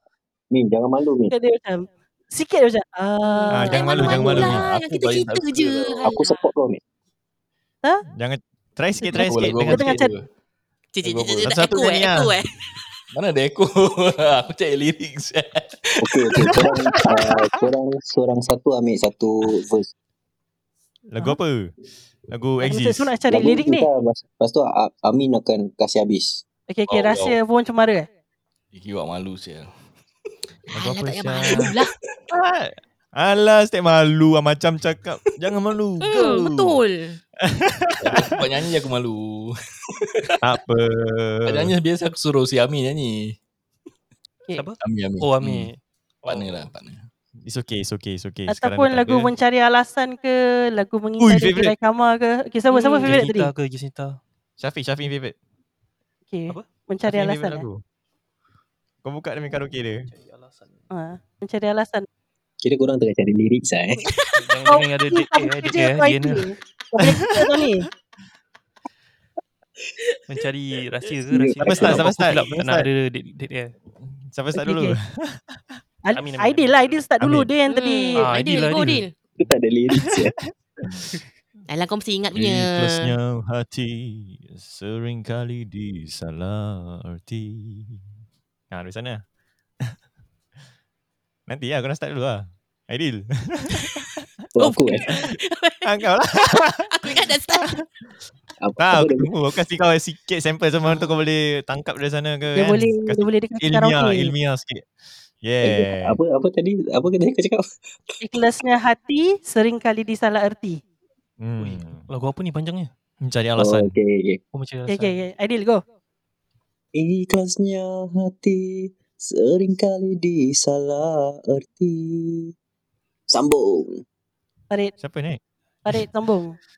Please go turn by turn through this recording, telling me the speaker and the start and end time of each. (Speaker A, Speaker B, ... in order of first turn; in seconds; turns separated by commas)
Speaker A: 0.5-1.3, Speaker B: 1.3-4.5, Speaker C: 3.2-6.4, Speaker D: 3.5-4.6, Speaker E: 4.1-6.0, Speaker A: 6.0-6.8, Speaker D: 8.1-10.0, Speaker B: 9.2-10.1, Speaker E: 9.2-10.2, Speaker C: 10.9-12.5, Speaker E: 11.0-11.8, Speaker D: 11.4-12.3, Speaker E: 13.1-16.6, Speaker A: 16.0-19.9, Speaker D: 21.1-21.7, Speaker D: 22.3-23.1, Speaker B: 22.6-23.9, Speaker A: 23.3-26.4, Speaker B: 26.7-28.1, Speaker E: 26.9-27.4, Speaker E: 28.7-29.7, Speaker C: 30.7-31.9, Speaker D: 30.7-31.7, Speaker D: 32.3-36.8, Speaker C: 36.0-37.2, Speaker D: 37.4-38.4, Speaker E: 38.0-40.4, Speaker D: 40.4-41.7, Speaker E: 41.5-43.4, Speaker F: 44.5-46.5, Speaker E: 44.8-45.7, Speaker E: 46.2-47.0, Speaker D: 47.5-49.3, Speaker B: 48.5-53.5, Speaker D: 51.2-51.7, Speaker C: 52.7-53.2, Speaker F: 53.0-54.2, Speaker D: 54.6-55.4, Speaker B: 56.3-57.7, Speaker D: 57.0-57.8, Speaker D: 59.0-60.1, Speaker F: 60.0-60.8, Speaker B: 60.9-62.1, Speaker A: 62.6-64.0, Speaker F: 64.3-66.5, Speaker B: 64.7-67.9, Speaker D: 67.0-67.6, Speaker F: 70.3-73.7, Speaker A: 71.3-72.2, Speaker D: 71.6-72.9, Speaker D: 74.2-75.6, Speaker B: 74.5-75.0, Speaker B: 76.0-78.2, Speaker F: 76.1-77.0, Speaker D: 77.2-77.5, Speaker C: 77.7-79.1, Speaker F: 78.1-79.0, Speaker A: 79.3-80.4, Speaker D: 80.8-81.1, Speaker C: 81.7-83.1, Speaker D: 82.3-88.0, Speaker D: 88.7-89.2, Speaker D: 91.5-94.2, Speaker A: 94.5-95.2, Speaker C: 94.6-95.9, Speaker D: 95.8-97.8, Speaker C: 96.9-97.8, Speaker A: 98.6-99.3, Speaker D: 98.8-104.8, Speaker B: 102.5-104.3, Speaker D: 105.4-106.2, Speaker A: 105.6-107.7, Speaker B: 108.2-110.8, Speaker D: 111.4-112.0, Speaker F: 111.6-112.9, Speaker D: 113.2-113.9, Speaker A: 113.6-114.4, Speaker F: 114.5-115.2, Speaker B: 114.9-115.8, Speaker A: 116.9-122.5, Speaker A: 123.3-124.0, Speaker D: 125.0-125.4, Speaker B: 125.8-126.5